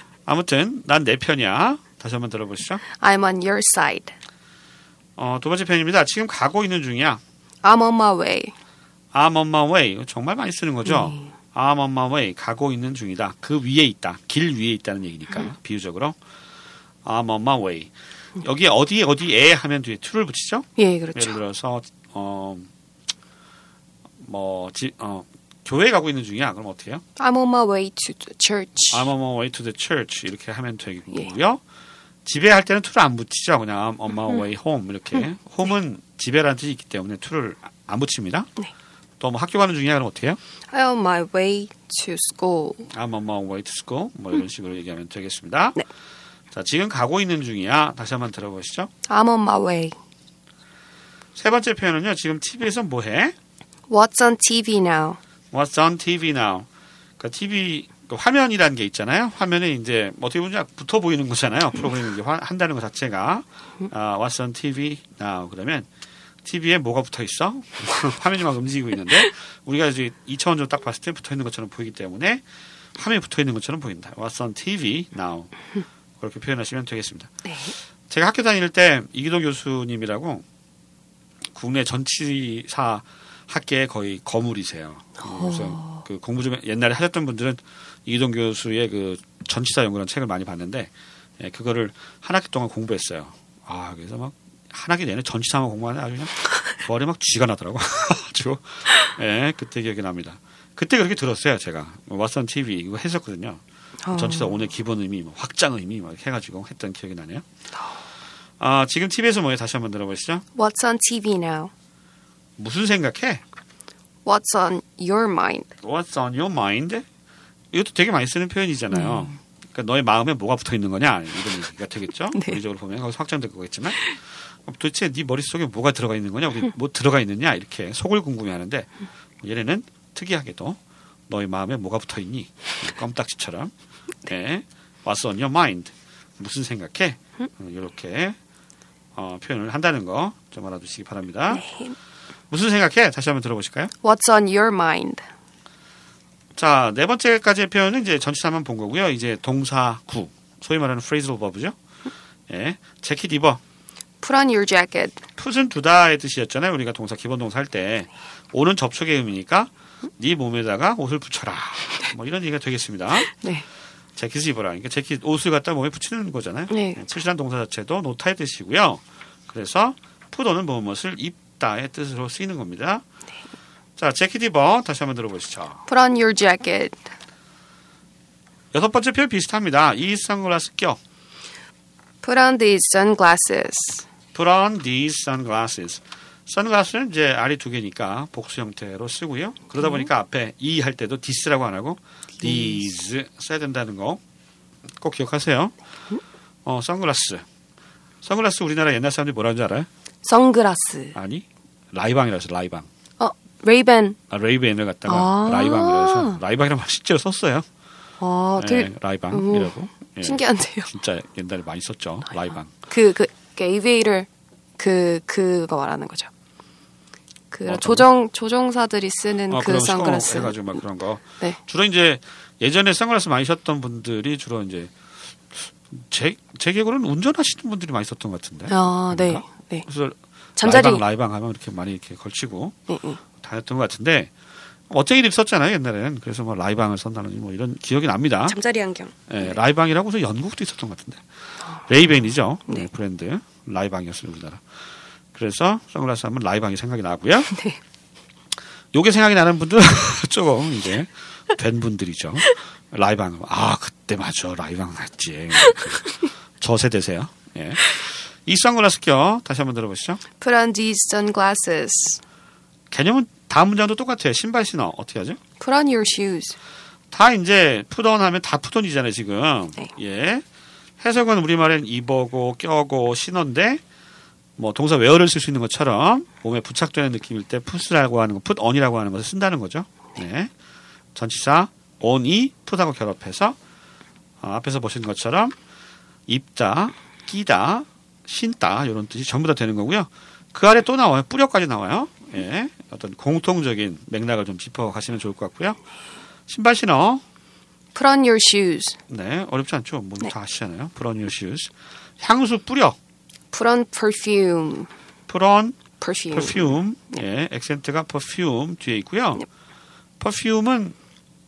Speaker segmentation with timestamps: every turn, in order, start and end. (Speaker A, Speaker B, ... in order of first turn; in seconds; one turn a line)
Speaker A: 0.3-2.8
Speaker B: 3.0-4.1
Speaker A: 5.2-7.2
Speaker B: 7.6-8.5
Speaker A: 9.1-16.2
Speaker B: 10.8-11.3
Speaker A: 17.0-22.7
Speaker B: 20.8-21.4
Speaker A: 24.2-27.0
Speaker B: 27.2-29.1
Speaker A: 28.9-31.6
Speaker A: 32.2-38.5
Speaker A: 39.2-40.4
Speaker B: 40.7-42.9
Speaker A: 42.9-45.8
Speaker A: 46.5-48.9
Speaker B: 49.0-50.0
Speaker A: 51.4-53.3
Speaker B: 53.9-55.2
Speaker A: 55.5-56.7
Speaker A: 57.2-65.9
Speaker A: 66.4-75.5
Speaker A: 76.2-77.4
Speaker B: 77.4-77.7
Speaker A: 78.1-80.4
Speaker A: 81.5-103.6
Speaker B: 85.2-86.0
Speaker B: 104.0-104.6
Speaker A: 104.1-107.4
Speaker A: 108.6-110.4
Speaker B: 110.5-111.7
Speaker A: 112.6-113.4
Speaker B: 114.2-115.7
Speaker A: 115.8-117.0
Speaker A: 117.7-133.7
Speaker B: 118.9-119.3
Speaker A: 134.2-138.4
Speaker A: 139.1-141.6
Speaker B: 141.5-141.9
Speaker A: 142.5-143.9
Speaker B: 144.0-145.2
Speaker A: 146.5-151.8
Speaker A: 152.5-153.6
Speaker B: 154.2-155.2
Speaker A: 155.4-163.3
Speaker B: 163.3-163.6
Speaker A: 164.2-173.0
Speaker B: 166.7-167.0
Speaker A: 174.0-175.8
Speaker B: 175.9-177.0
Speaker A: 178.7-181.0
Speaker B: 182.2-184.1
Speaker A: 184.3-194.2
Speaker B: 192.4-192.8
Speaker A: 195.0-195.8
Speaker A: 196.6-197.4
Speaker A: 198.2-199.9
Speaker B: 200.2-201.1
Speaker A: 201.1-202.9
Speaker B: 203.2-204.2
Speaker A: 204.3-207.7
Speaker B: 205.1-206.4
Speaker B: 208.2-210.9
Speaker A: 208.6-212.7
Speaker B: 212.9-216.3
Speaker B: 217.5-220.6
Speaker A: 217.7-218.1
Speaker A: 219.5-224.9
Speaker A: 225.5-232.8
Speaker B: 228.7-229.8
Speaker B: 230.6-231.0
Speaker B: 232.9-233.2
Speaker A: 233.4-234.3
Speaker A: 234.9-238.6
Speaker B: 238.5-239.5
Speaker A: 239.3-241.2
Speaker A: 241.8-244.6
Speaker A: 245.3-247.5
Speaker B: 247.5-247.8
Speaker A: 248.9-260.2
Speaker B: 260.4-262.2
Speaker A: 262.9-265.4
Speaker B: 265.6-266.6
Speaker A: 267.1-270.4
Speaker A: 271.0-273.8
Speaker A: 274.6-280.5
Speaker A: 281.1-283.6
Speaker A: 284.4-285.6
Speaker A: 286.3-295.8
Speaker A: 296.5-297.2
Speaker B: 297.9-299.0
Speaker A: 299.1-303.0
Speaker B: 303.5-304.9
Speaker A: 305.3-305.8
Speaker B: 306.0-306.8
Speaker A: 306.3-309.4
Speaker A: 310.2-310.9